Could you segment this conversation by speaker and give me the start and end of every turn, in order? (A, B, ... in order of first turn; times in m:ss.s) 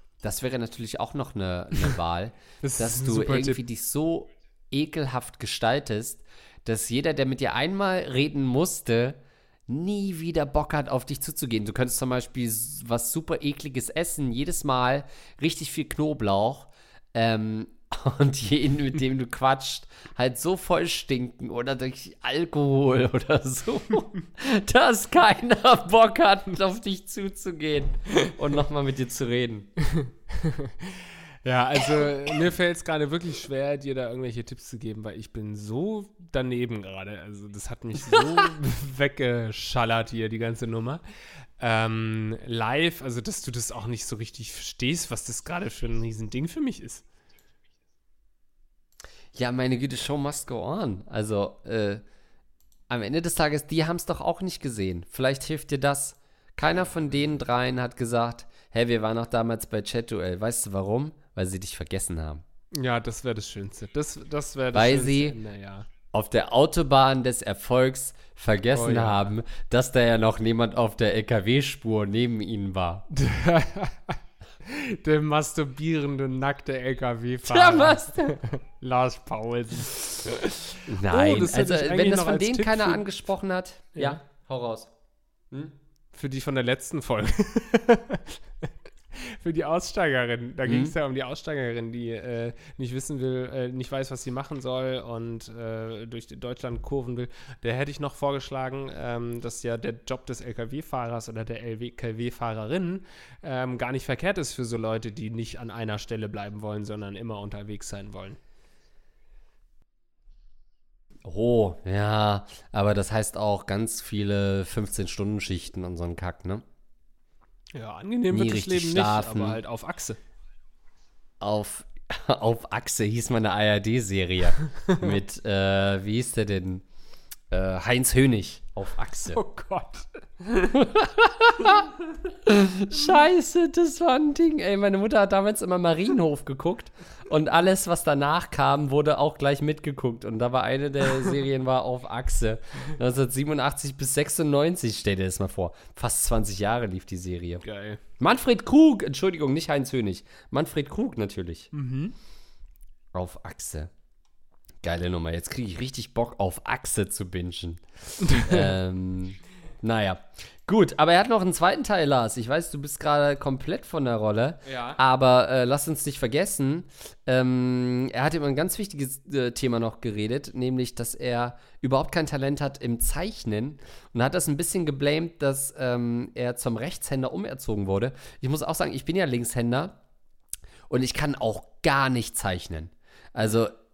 0:00.2-0:29.7 A
0:02.6-0:03.6 B
0:29.9-0:41.0 B
0:41.6-0:47.0 B
0:49.4-0:52.0 A
0:52.9-1:02.4 A
1:02.7-1:05.9 B
1:04.7-1:05.4 A
1:06.1-1:13.0 A
1:08.7-1:09.3 B
1:13.1-1:23.0 B
1:17.5-1:18.4 A
1:20.9-1:24.9 A
1:26.1-1:48.4 B
1:30.7-1:30.9 A
1:51.2-1:56.6 A
1:57.7-2:00.2 B
1:58.3-1:59.6 A
2:01.4-2:06.8 A
2:07.5-2:09.4 A
2:09.3-2:10.1 B
2:10.7-2:11.9 A
2:12.4-2:27.6 A
2:27.6-2:28.0 B
2:28.2-2:31.7 A
2:31.7-2:32.2 B
2:33.1-2:33.9 A
2:34.8-3:00.0 A
2:38.2-2:38.7 B
2:44.7-2:45.0 B
3:00.9-3:03.8 A